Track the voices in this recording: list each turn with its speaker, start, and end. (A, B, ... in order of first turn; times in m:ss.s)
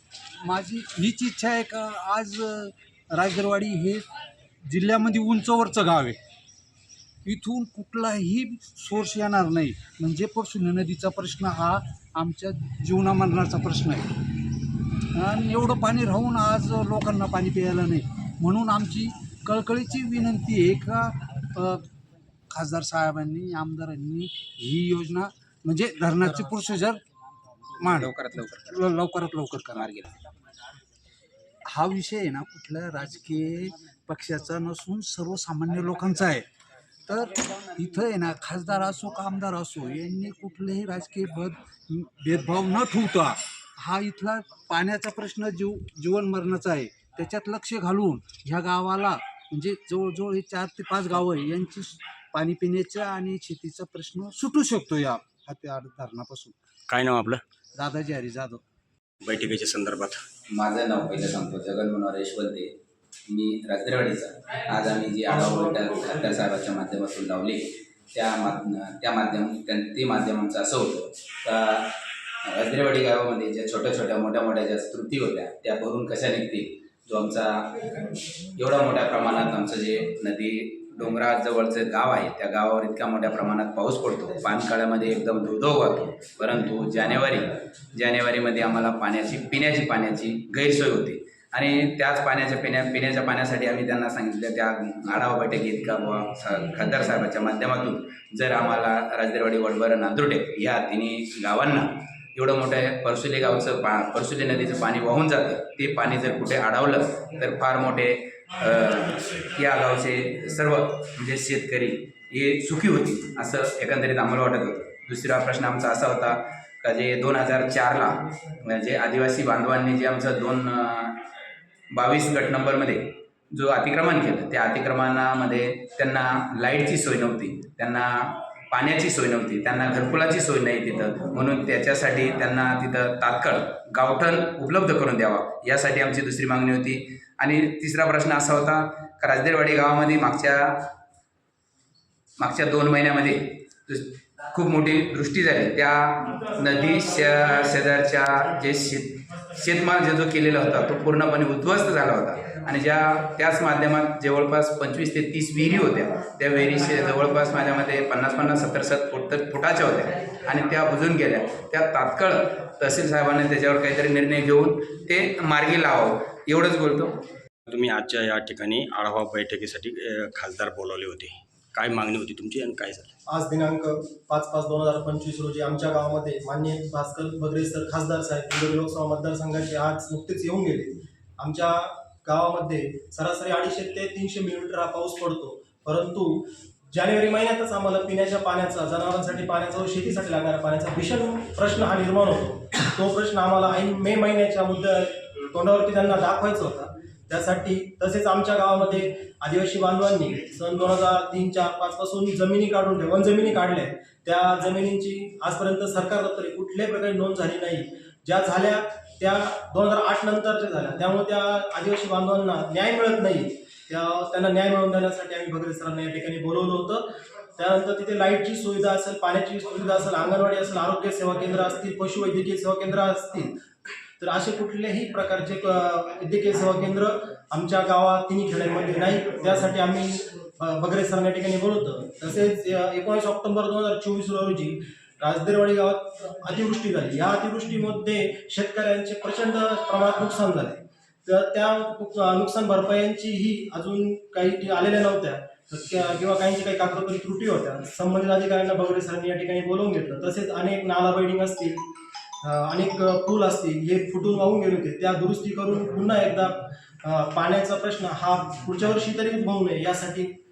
0:00.4-0:04.0 A
0:04.6-0:06.2 A
0:07.2-0:14.1 A
0:15.1-0:21.9 A
0:22.5-0:27.0 A
0:27.8-0:29.9 A
0:27.9-0:28.8 B
0:29.7-0:30.1 B
0:31.7-0:36.4 A
0:37.1-0:56.6 A
0:56.9-0:57.4 C
0:57.8-0:58.6 A
0:59.2-1:00.2 C
1:00.5-1:02.7 B
1:03.3-1:11.9 B
1:05.2-1:06.4 D
1:12.5-1:17.8 B
1:18.6-2:01.2 B
2:01.9-2:20.8 B
2:22.4-2:47.2 B
2:47.7-2:53.1 C
2:53.3-3:37.0 D
3:37.6-3:43.6 D
3:44.2-4:11.8 D
4:12.4-4:20.3 D